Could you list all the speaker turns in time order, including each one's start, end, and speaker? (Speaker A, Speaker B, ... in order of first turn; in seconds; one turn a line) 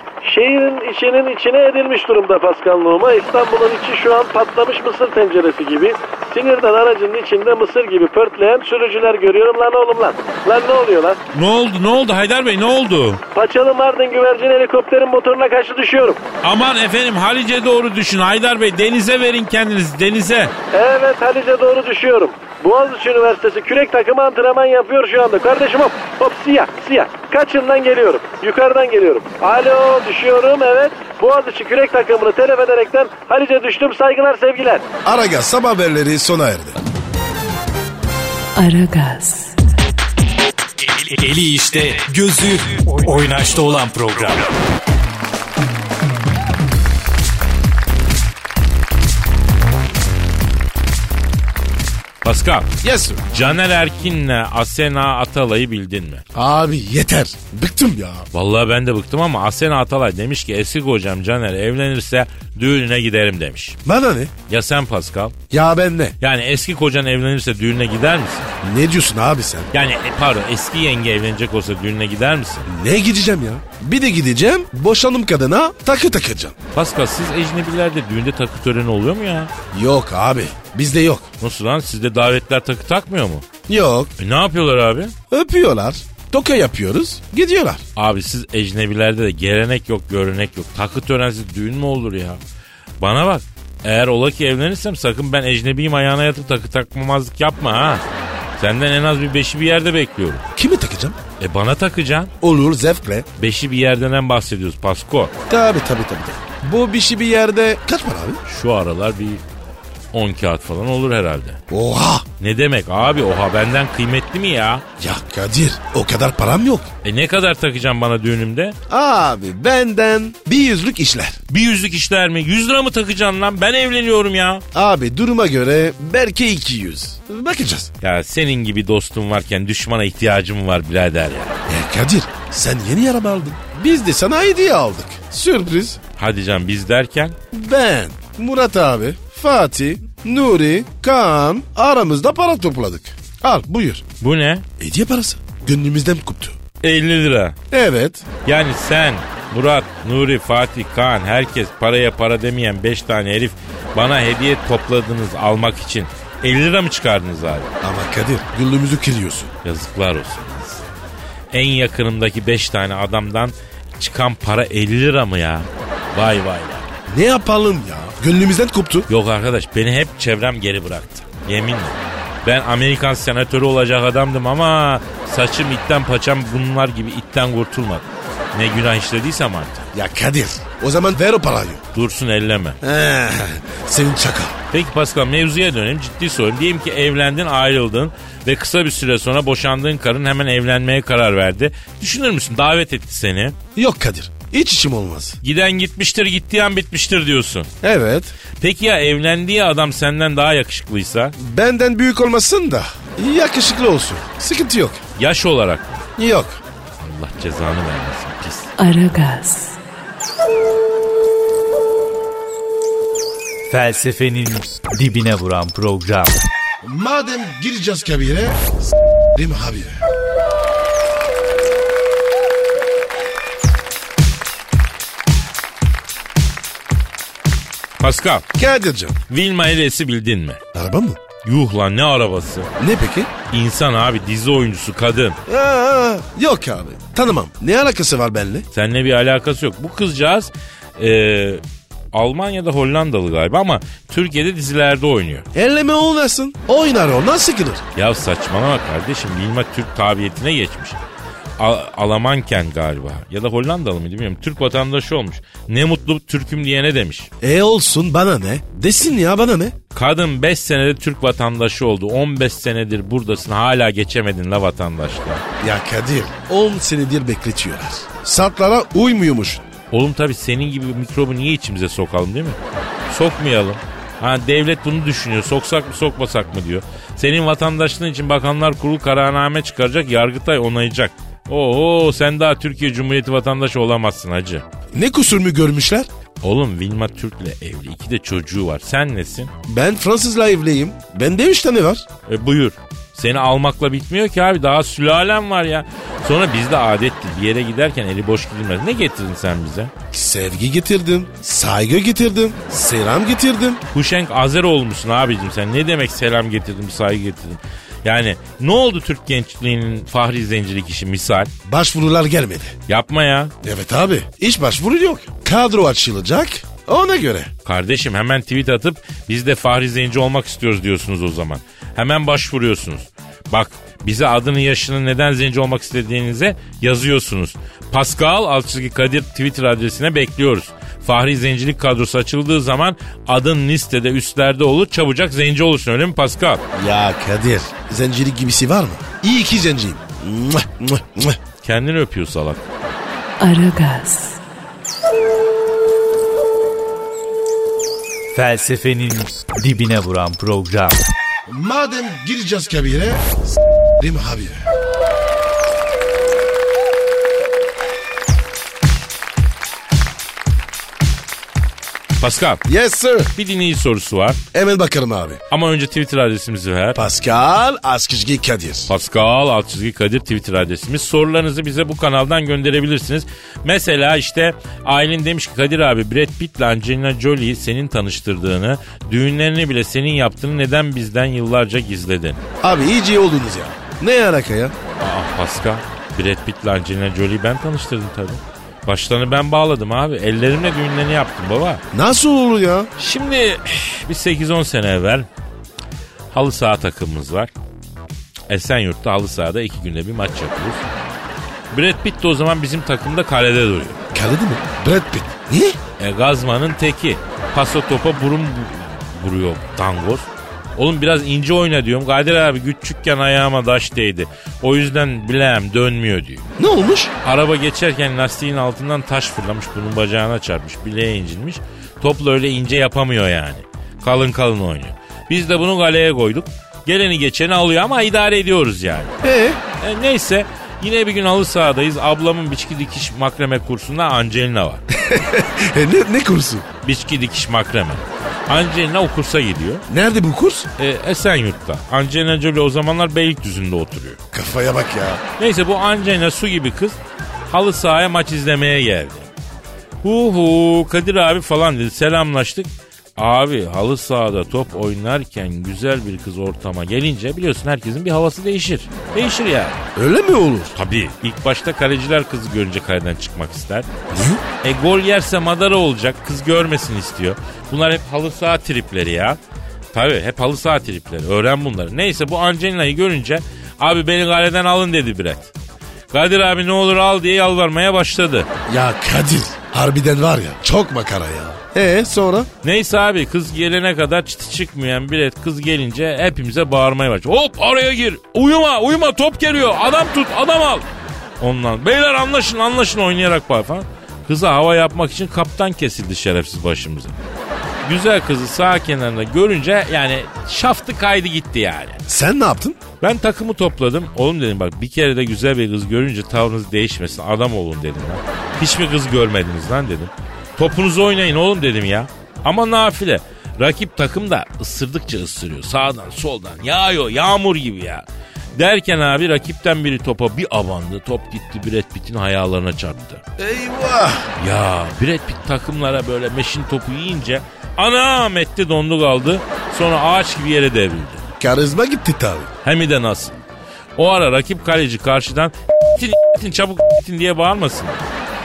Speaker A: 0.2-11.2
Speaker B: 11.3-13.2
Speaker A: 13.3-16.2
Speaker B: 16.4-20.5
Speaker A: 20.7-34.8
Speaker C: 35.0-36.8
Speaker D: 38.5-39.6
Speaker E: 40.8-44.5
Speaker B: 52.2-52.7
Speaker C: 52.8-53.2
Speaker B: 53.3-56.2
Speaker C: 56.3-58.3
Speaker B: 58.3-63.8
Speaker C: 63.8-64.3
Speaker B: 64.5-65.3
Speaker C: 65.5-66.1
Speaker B: 66.2-68.5
Speaker C: 68.6-69.7
Speaker B: 69.7-72.7
Speaker C: 72.7-76.5
Speaker B: 76.7-79.5
Speaker C: 79.7-81.3
Speaker B: 81.4-83.4
Speaker C: 83.7-84.1
Speaker B: 84.2-85.1
Speaker C: 85.3-87.8
Speaker B: 88.0-92.4
Speaker B: 93.0-98.0
Speaker B: 98.6-100.4
Speaker C: 100.5-101.2
Speaker B: 101.4-102.3
Speaker C: 102.4-103.3
Speaker B: 103.4-105.3
Speaker C: 105.5-108.4
Speaker B: 108.5-109.4
Speaker B: 110.1-111.6
Speaker C: 111.7-112.2
Speaker B: 112.4-114.8
Speaker C: 115.0-116.9
Speaker B: 117.0-118.7
Speaker C: 118.9-121.4
Speaker B: 121.5-124.6
Speaker C: 124.7-127.9
Speaker B: 128.0-131.6
Speaker C: 131.7-136.0
Speaker B: 136.2-137.3
Speaker C: 137.5-144.0
Speaker B: 144.2-144.6
Speaker C: 144.8-146.6
Speaker B: 146.8-147.6
Speaker C: 147.7-148.3
Speaker B: 148.4-157.7
Speaker C: 157.8-159.5
Speaker B: 159.6-160.8
Speaker B: 161.5-166.9
Speaker C: 167.1-169.1
Speaker B: 169.1-179.8
Speaker C: 179.9-181.8
Speaker B: 181.9-182.8
Speaker C: 182.8-184.6
Speaker B: 184.7-193.6
Speaker C: 193.8-195.4
Speaker B: 195.4-197.7
Speaker C: 197.8-198.3
Speaker B: 198.6-201.3
Speaker C: 201.4-205.0
Speaker B: 205.2-206.0
Speaker C: 206.2-206.6
Speaker B: 207.0-208.7
Speaker D: 208.8-209.8
Speaker E: 213.7-216.3
Speaker C: 216.8-218.7
Speaker C: 219.3-220.0
Speaker B: 228.0-228.4
Speaker C: 228.5-229.2
Speaker B: 229.3-230.6
Speaker C: 230.7-231.2
Speaker B: 231.4-232.7
Speaker C: 232.8-233.3
Speaker B: 233.5-235.4
Speaker C: 235.5-238.7
Speaker B: 238.7-241.6
Speaker B: 242.1-245.4
Speaker C: 245.5-247.8
Speaker B: 247.9-251.0
Speaker B: 251.6-257.3
Speaker C: 257.4-259.8
Speaker B: 259.9-265.4
Speaker C: 265.6-269.6
Speaker B: 269.9-272.6
Speaker B: 273.1-284.6
Speaker C: 284.9-286.1
Speaker B: 286.4-289.5
Speaker C: 289.7-292.1
Speaker B: 292.3-299.9
Speaker C: 300.1-303.8
Speaker B: 303.9-311.5
Speaker C: 311.6-312.7
Speaker B: 312.9-313.5
Speaker C: 313.6-317.5
Speaker B: 317.6-336.6
Speaker C: 336.7-341.4
Speaker B: 341.6-342.6
Speaker D: 343.4-344.4
Speaker E: 348.3-350.9
Speaker C: 351.5-353.4
Speaker C: 354.0-354.6
Speaker B: 362.2-362.6
Speaker C: 362.6-363.3
Speaker B: 363.3-364.4
Speaker C: 364.5-365.4
Speaker B: 365.5-367.0
Speaker C: 366.9-368.9
Speaker B: 368.9-382.4
Speaker C: 382.6-384.7
Speaker B: 385.0-391.8
Speaker C: 391.9-392.9
Speaker B: 393.0-395.2
Speaker B: 396.3-397.5
Speaker B: 398.5-400.8
Speaker B: 401.7-404.0
Speaker C: 404.1-405.8
Speaker B: 406.0-416.4
Speaker C: 416.6-417.1
Speaker B: 417.2-429.1
Speaker C: 429.2-429.6
Speaker B: 429.8-434.8
Speaker C: 434.9-436.6
Speaker B: 436.8-439.8
Speaker C: 439.9-440.7
Speaker B: 440.8-444.2
Speaker C: 444.3-445.2
Speaker B: 445.4-447.0
Speaker B: 447.5-449.3
Speaker B: 450.0-459.8
Speaker C: 459.9-460.7
Speaker B: 460.8-463.9
Speaker C: 464.1-464.4
Speaker B: 464.6-469.4
Speaker B: 469.9-475.5
Speaker B: 476.1-478.5
Speaker C: 478.7-482.5
Speaker B: 482.6-490.8
Speaker B: 491.4-497.1
Speaker B: 497.8-502.0
Speaker C: 502.1-502.8
Speaker B: 503.0-523.2
Speaker C: 523.4-524.3
Speaker B: 524.4-531.2
Speaker C: 531.4-532.5
Speaker B: 532.6-533.4
Speaker B: 534.0-538.0